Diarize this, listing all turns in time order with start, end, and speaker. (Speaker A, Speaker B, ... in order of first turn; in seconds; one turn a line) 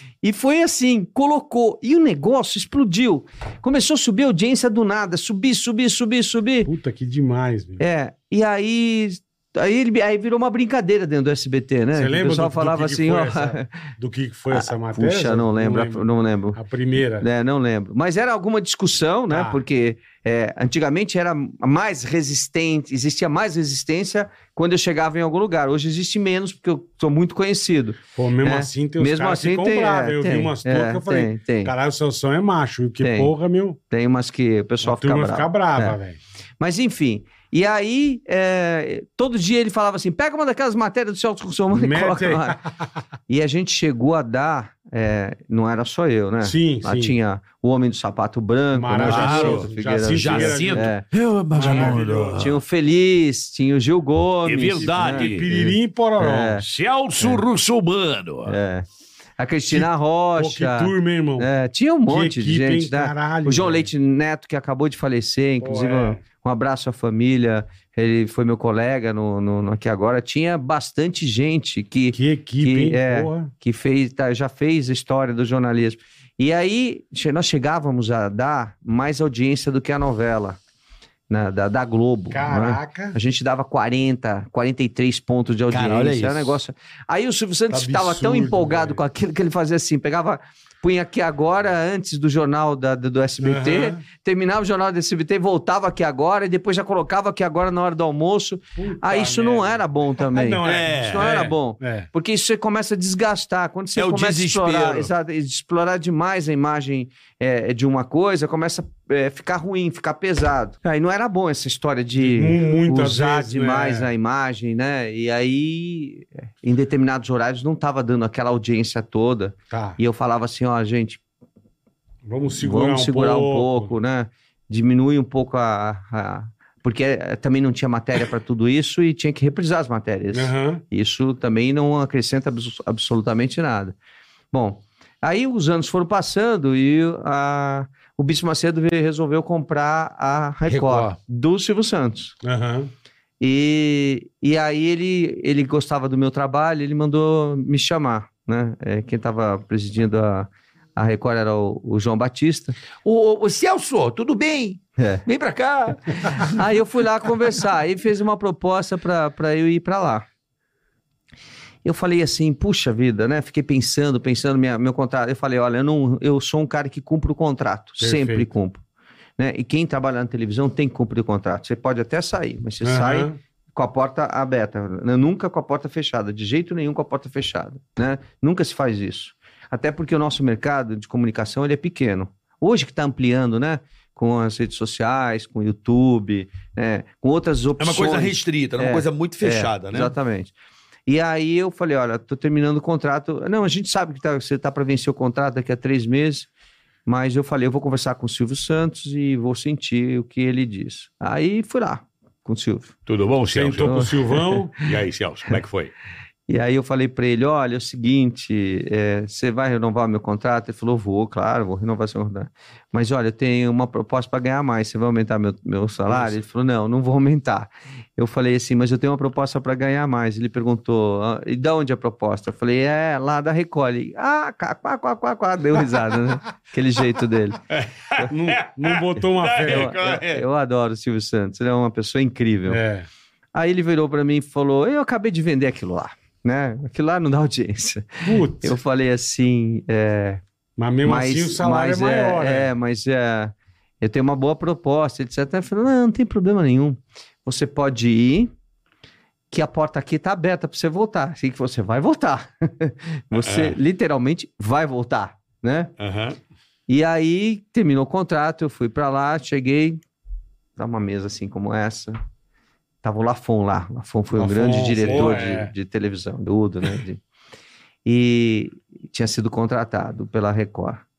Speaker A: 0.2-6.7
Speaker B: 6.7-7.8
Speaker A: 7.8-13.7
Speaker B: 11.9-17.3
Speaker A: 14.5-16.6
Speaker A: 17.2-31.7
Speaker B: 19.3-19.6
Speaker B: 28.1-33.8
Speaker A: 33.0-33.3
Speaker A: 33.9-36.0
Speaker B: 34.8-36.2
Speaker A: 36.6-42.6
Speaker B: 41.7-42.9
Speaker A: 43.3-51.0
Speaker B: 46.4-47.1
Speaker B: 48.7-50.9
Speaker C: 49.0-52.6
Speaker B: 51.5-52.5
Speaker A: 51.6-56.6
Speaker C: 54.5-55.5
Speaker B: 54.8-56.6
Speaker C: 56.6-58.5
Speaker A: 58.5-58.9
Speaker A: 59.4-80.6
Speaker B: 59.7-61.5
Speaker B: 62.1-63.9
Speaker B: 65.6-66.2
Speaker B: 72.1-73.5
Speaker A: 81.3-121.2
Speaker B: 82.3-83.2
Speaker C: 85.7-86.6
Speaker B: 87.7-89.0
Speaker B: 93.4-94.0
Speaker B: 98.8-102.1
Speaker C: 100.6-101.5
Speaker C: 104.0-105.1
Speaker B: 112.2-114.1
Speaker B: 119.7-120.0
Speaker B: 122.2-123.9
Speaker A: 122.6-133.9
Speaker B: 130.3-130.8
Speaker A: 134.5-142.3
Speaker C: 140.7-141.2
Speaker B: 142.4-142.9
Speaker A: 143.4-152.8
Speaker C: 153.1-156.6
Speaker A: 155.0-155.2
Speaker A: 156.3-160.2
Speaker A: 161.8-168.8
Speaker B: 168.0-168.5
Speaker A: 169.4-190.5
Speaker B: 172.8-173.4
Speaker C: 187.8-190.1
Speaker A: 191.1-196.5
Speaker A: 197.1-202.9
Speaker C: 203.1-204.0
Speaker B: 203.5-204.8
Speaker A: 203.8-204.8
Speaker C: 204.8-205.9
Speaker A: 206.5-227.6
Speaker B: 216.1-216.3
Speaker C: 227.7-230.4
Speaker B: 228.3-230.0
Speaker A: 229.6-232.8
Speaker B: 232.7-233.1
Speaker A: 233.5-240.4
Speaker B: 238.2-238.8
Speaker B: 240.8-242.7
Speaker A: 241.1-248.5
Speaker A: 249.5-255.9
Speaker C: 253.4-253.8
Speaker C: 256.0-256.4
Speaker A: 256.9-260.0
Speaker A: 260.8-262.2
Speaker A: 263.0-267.2
Speaker B: 264.3-265.7
Speaker A: 268.1-271.0